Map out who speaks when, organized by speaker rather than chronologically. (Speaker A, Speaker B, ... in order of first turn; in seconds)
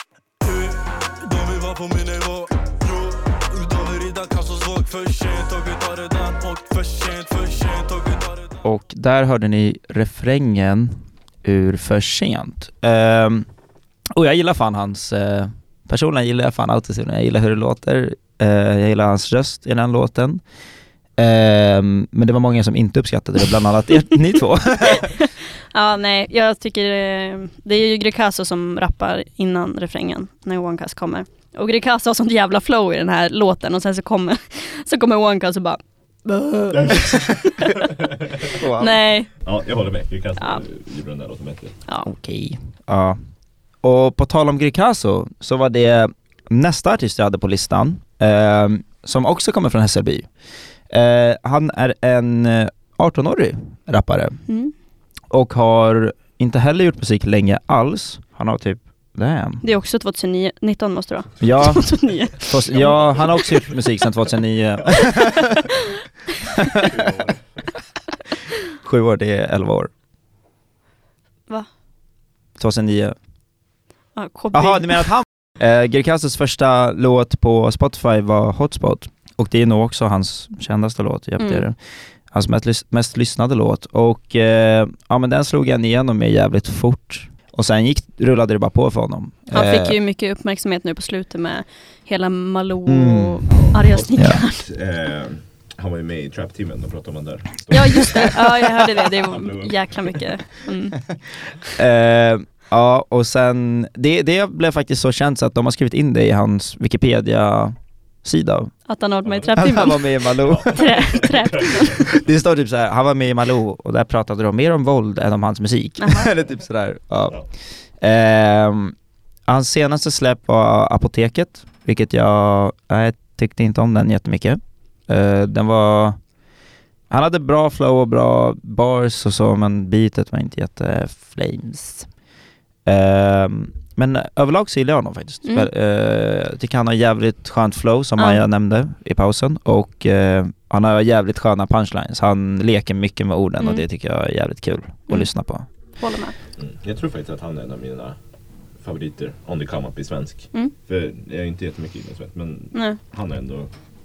Speaker A: 0.4-8.6
Speaker B: 8.6-13.5, 14.1-20.4, 21.2-25.1, 38.5-39.0, 42.0-43.2, 43.8-50.3, 50.9-54.4, 55.3-59.6, 61.4-65.6, 68.8-69.9, 72.6-73.1, 74.5-81.8, 82.3-90.0, 92.8-93.5, 101.8-108.7, 109.5-111.2, 112.0-117.4, 118.0-118.9, 119.5-126.2, 127.1-132.1, 132.8-145.7
Speaker C: 25.7-36.8, 38.8-39.3, 59.6-62.5, 74.2-75.1, 89.5-94.6, 97.7-101.0, 108.9-110.1, 110.6-111.9, 116.0-116.3, 138.2-138.4, 146.0-146.3
Speaker D: 36.7-37.3, 39.4-41.7, 62.7-63.4, 66.8-67.4, 93.5-99.9, 110.5-112.0, 146.6-148.2, 148.8-153.7